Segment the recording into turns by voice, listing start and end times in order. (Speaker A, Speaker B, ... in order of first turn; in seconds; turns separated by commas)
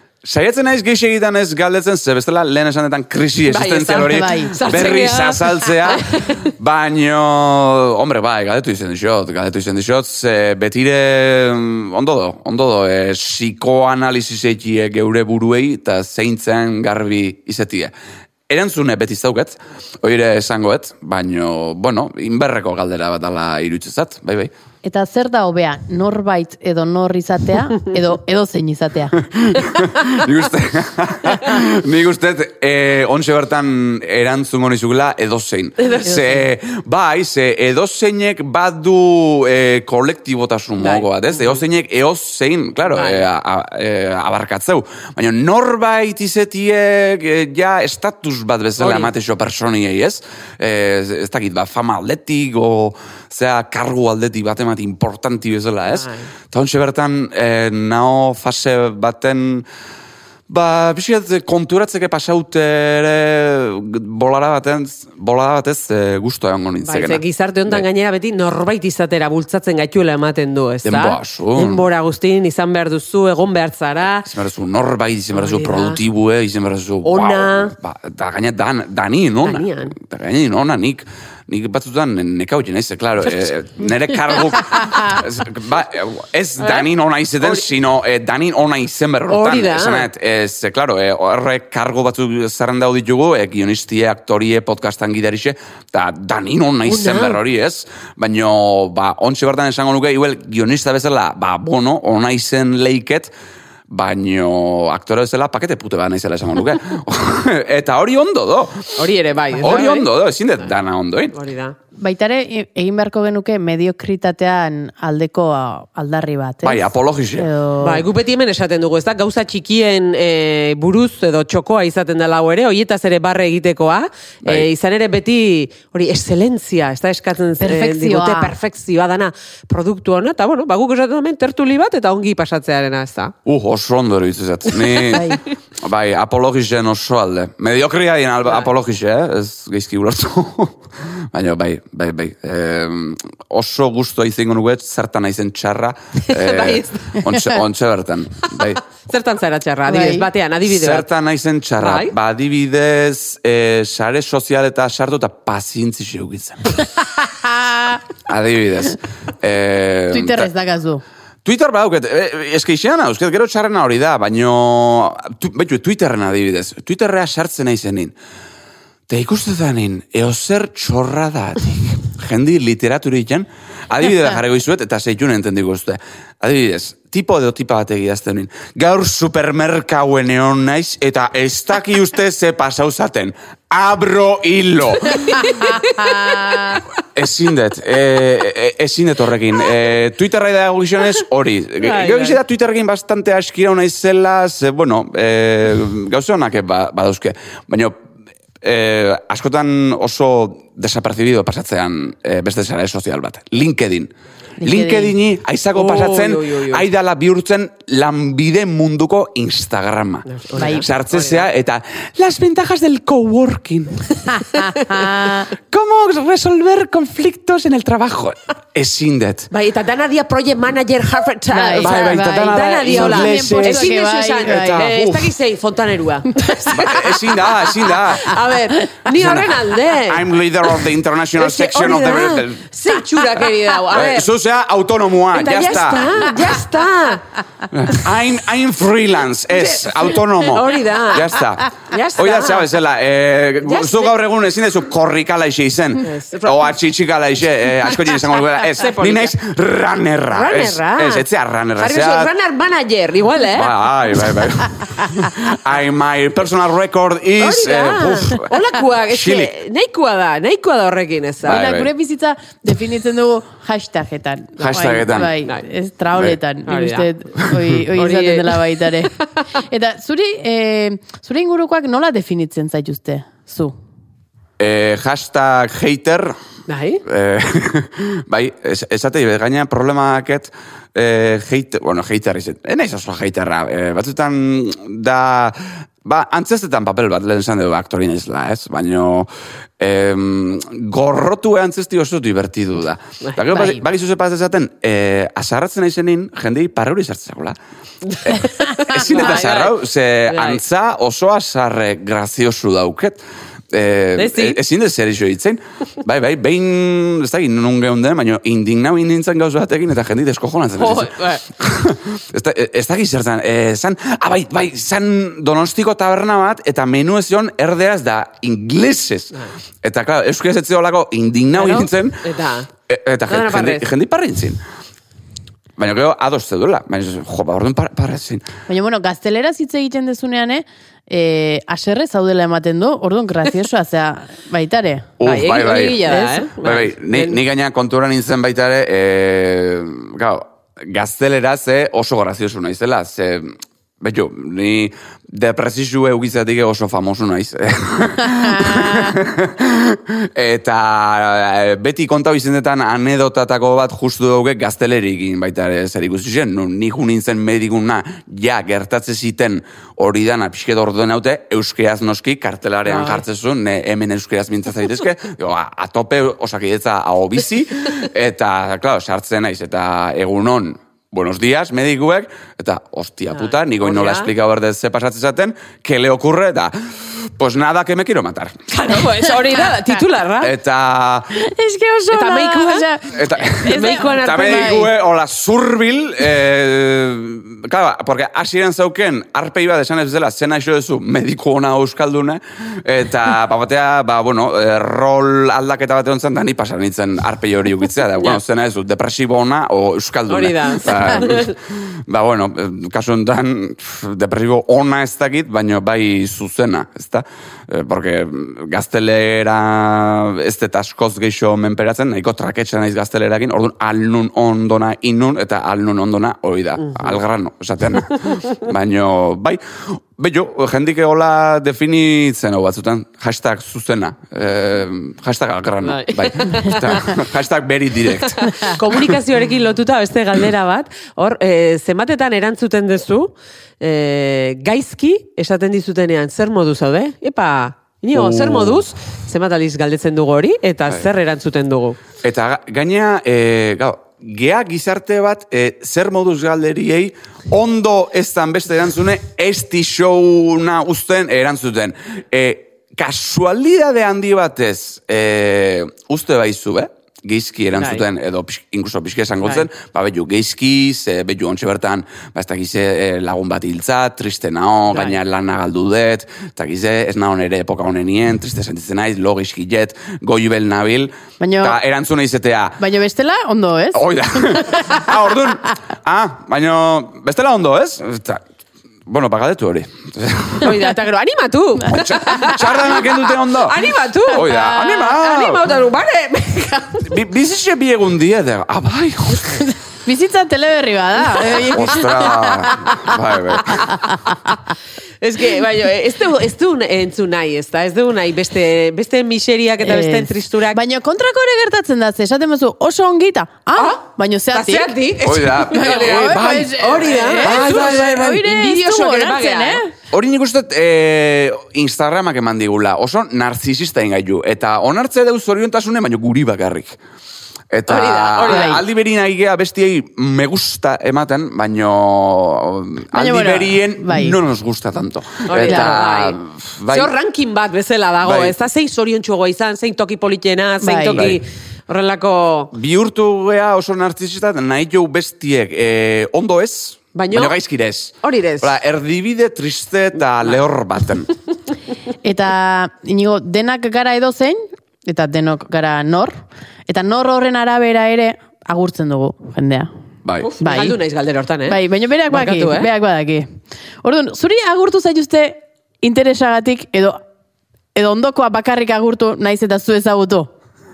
Speaker A: 0.2-17.9, Speaker B: 3.5-6.5, Speaker C: 4.0-4.6, Speaker A: 18.5-24.5, Speaker C: 24.8-29.2, Speaker A: 29.2-59.6, Speaker B: 35.8-36.2, Speaker C: 36.0-36.4, Speaker B: 40.8-41.6, Speaker B: 42.9-43.2, Speaker B: 48.8-49.1, Speaker B: 55.9-56.3, Speaker A: 60.5-67.8, Speaker B: 66.8-74.3, Speaker A: 70.8-71.8, Speaker A: 74.2-103.3, Speaker B: 75.3-76.0, Speaker B: 77.0-77.7, Speaker B: 79.4-80.0, Speaker B: 86.6-86.9, Speaker B: 89.3-90.1, Speaker B: 96.8-97.4, Speaker A: 103.9-109.0, Speaker B: 109.0-110.1, Speaker A: 109.5-111.3, Speaker B: 111.3-111.7, Speaker C: 112.0-118.1, Speaker A: 116.6-117.5, Speaker B: 117.8-133.3, Speaker C: 127.6-128.5, Speaker A: 133.4-148.8, Speaker B: 134.8-135.2, Speaker C: 135.1-135.4, Speaker B: 146.2-147.2, Speaker B: 148.6-151.1, Speaker C: 149.9-150.3, Speaker A: 150.6-156.8, Speaker B: 151.8-152.1, Speaker C: 157.2-158.0, Speaker A: 158.2-160.5, Speaker C: 160.1-161.0, Speaker A: 161.4-168.1, Speaker A: 169.1-185.8, Speaker B: 185.2-186.8, Speaker C: 185.8-186.8, Speaker A: 187.0-197.9, Speaker B: 191.8-192.4, Speaker A: 198.6-204.1, Speaker C: 204.6-205.1, Speaker A: 204.6-214.4, Speaker B: 205.7-206.8, Speaker B: 210.3-211.5, Speaker C: 210.6-210.8, Speaker C: 214.3-215.5, Speaker A: 215.5-219.5, Speaker B: 219.5-230.3, Speaker C: 221.5-224.9, Speaker A: 221.8-225.3, Speaker A: 226.7-228.3, Speaker A: 229.1-232.7, Speaker B: 231.4-234.3, Speaker A: 233.9-236.3, Speaker B: 235.3-237.2, Speaker A: 237.7-252.3, Speaker B: 239.6-242.7, Speaker B: 243.6-244.1, Speaker B: 246.0-246.7, Speaker B: 248.7-249.3, Speaker B: 250.3-251.2, Speaker B: 251.8-253.7, Speaker A: 253.5-259.5, Speaker B: 257.4-261.6, Speaker A: 261.4-261.9, Speaker C: 261.4-273.7, Speaker A: 264.6-265.4, Speaker B: 266.7-267.1, Speaker B: 267.9-269.2, Speaker A: 274.6-276.4, Speaker B: 276.7-277.0, Speaker A: 277.0-297.6, Speaker C: 293.5-293.8, Speaker B: 298.1-300.6, Speaker A: 298.2-303.2, Speaker A: 303.7-322.2, Speaker B: 304.2-304.6, Speaker B: 310.8-311.4, Speaker B: 321.5-322.7, Speaker A: 322.9-324.6, Speaker B: 323.3-323.9, Speaker A: 325.8-328.5, Speaker C: 328.7-335.2, Speaker A: 335.2-378.7, Speaker B: 335.2-337.4, Speaker C: 336.0-336.4, Speaker C: 348.8-349.1, Speaker B: 362.9-363.2, Speaker B: 373.4-374.3, Speaker B: 378.7-380.5, Speaker A: 380.4-381.3, Speaker C: 381.3-384.9, Speaker B: 382.1-382.9, Speaker A: 383.1-429.0, Speaker B: 383.6-384.8, Speaker B: 400.3-401.5, Speaker B: 416.9-417.1, Speaker B: 425.8-427.2, Speaker B: 428.2-442.0, Speaker A: 438.1-438.8, Speaker A: 442.2-472.8, Speaker B: 457.8-458.0, Speaker C: 471.4-471.8, Speaker C: 472.8-475.0, Speaker A: 473.9-478.4, Speaker A: 479.1-480.8, Speaker B: 480.6-487.1, Speaker A: 481.9-485.7, Speaker A: 487.0-489.6, Speaker C: 490.0-494.5, Speaker A: 491.6-494.0, Speaker B: 495.2-500.8, Speaker C: 499.8-505.0, Speaker B: 504.5-509.8, Speaker A: 505.2-508.1, Speaker C: 505.7-509.9, Speaker A: 510.1-517.0, Speaker A: 517.7-527.1, Speaker B: 517.9-518.8, Speaker C: 518.5-518.8, Speaker C: 523.1-524.4, Speaker B: 525.5-526.4, Speaker C: 525.6-526.0, Speaker B: 526.9-532.7, Speaker A: 528.2-528.5, Speaker C: 530.8-531.3, Speaker A: 531.1-531.4, Speaker A: 532.7-541.3, Speaker B: 537.1-537.5, Speaker B: 538.2-538.7, Speaker C: 542.2-549.9, Speaker A: 550.2-550.5, Speaker B: 550.4-552.9, Speaker C: 550.6-551.0, Speaker C: 551.7-553.5, Speaker C: 554.0-557.2, Speaker C: 557.9-560.5